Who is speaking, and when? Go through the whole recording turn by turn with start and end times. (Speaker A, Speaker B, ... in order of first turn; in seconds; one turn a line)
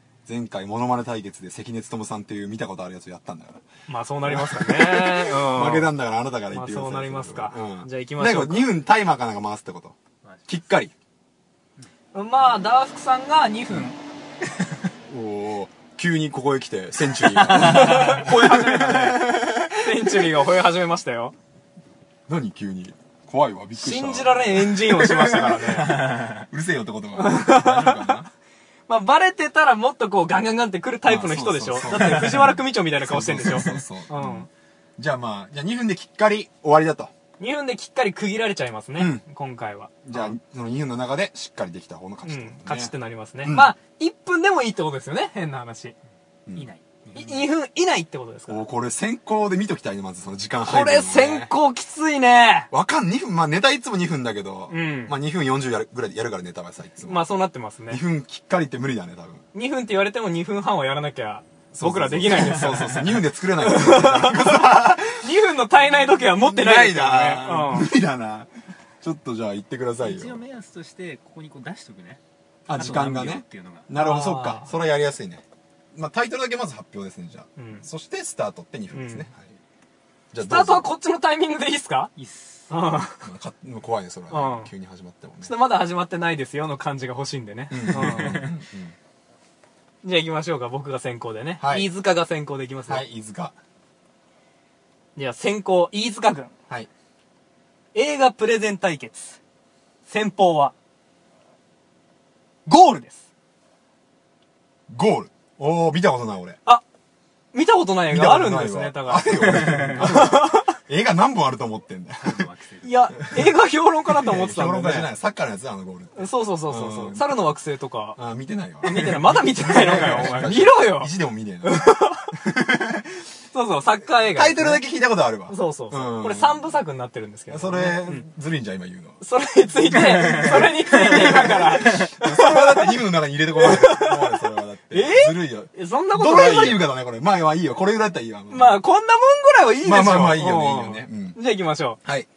Speaker A: 0.2-3.6
Speaker B: 3.9-5.9
Speaker A: 4.2-10.0
Speaker B: 6.5-8.7
Speaker A: 10.5-10.9
Speaker B: 12.1-13.9
Speaker A: 15.1-20.3
Speaker B: 17.3-21.3
Speaker A: 22.3-28.3
Speaker B: 23.8-26.0
Speaker C: 26.0-26.4
Speaker B: 27.1-28.2
Speaker B: 28.9-34.5
Speaker A: 31.1-37.1
Speaker B: 37.4-40.4
Speaker A: 39.0-39.2
Speaker A: 40.0-42.9
Speaker B: 42.2-45.9
Speaker A: 43.4-43.7
Speaker C: 46.5-47.5
Speaker B: 47.1-48.6
Speaker A: 48.5-51.5
Speaker B: 50.6-52.7
Speaker A: 52.7-57.3
Speaker B: 54.7-55.1
Speaker B: 57.0-58.0
Speaker A: 57.9-59.4
Speaker B: 59.5-63.1
Speaker A: 61.7-65.3
Speaker B: 63.6-67.9
Speaker A: 66.0-68.5
Speaker A: 69.0-70.4
Speaker C: 70.0-73.9
Speaker A: 72.7-75.4
Speaker B: 73.9-74.7
Speaker A: 75.9-79.5
Speaker B: 77.6-77.8
Speaker B: 78.9-79.3
Speaker A: 80.3-80.9
Speaker B: 80.4-82.1
Speaker C: 82.2-82.7
Speaker B: 82.7-83.2
Speaker A: 83.2-85.5
Speaker B: 84.3-84.7
Speaker B: 85.4-88.5
Speaker A: 87.7-88.9
Speaker B: 90.0-93.0
Speaker A: 91.6-91.9
Speaker A: 92.9-93.5
Speaker B: 95.2-96.5
Speaker B: 97.9-99.4
Speaker B: 100.1-100.7
Speaker B: 102.7-103.2
Speaker A: 104.9-106.6
Speaker B: 107.5-110.7
Speaker A: 108.1-112.4
Speaker C: 109.5-110.0
Speaker C: 112.2-113.2
Speaker B: 112.8-115.1
Speaker A: 114.1-117.3
Speaker B: 116.1-118.2
Speaker A: 118.2-121.8
Speaker B: 118.8-121.1
Speaker B: 121.6-122.3
Speaker A: 122.4-123.0
Speaker B: 123.5-124.8
Speaker A: 124.3-126.6
Speaker B: 125.5-128.2
Speaker A: 127.5-129.2
Speaker B: 129.2-132.9
Speaker C: 130.1-132.0
Speaker A: 130.9-138.8
Speaker B: 133.6-136.8
Speaker B: 138.5-142.0
Speaker A: 139.8-141.4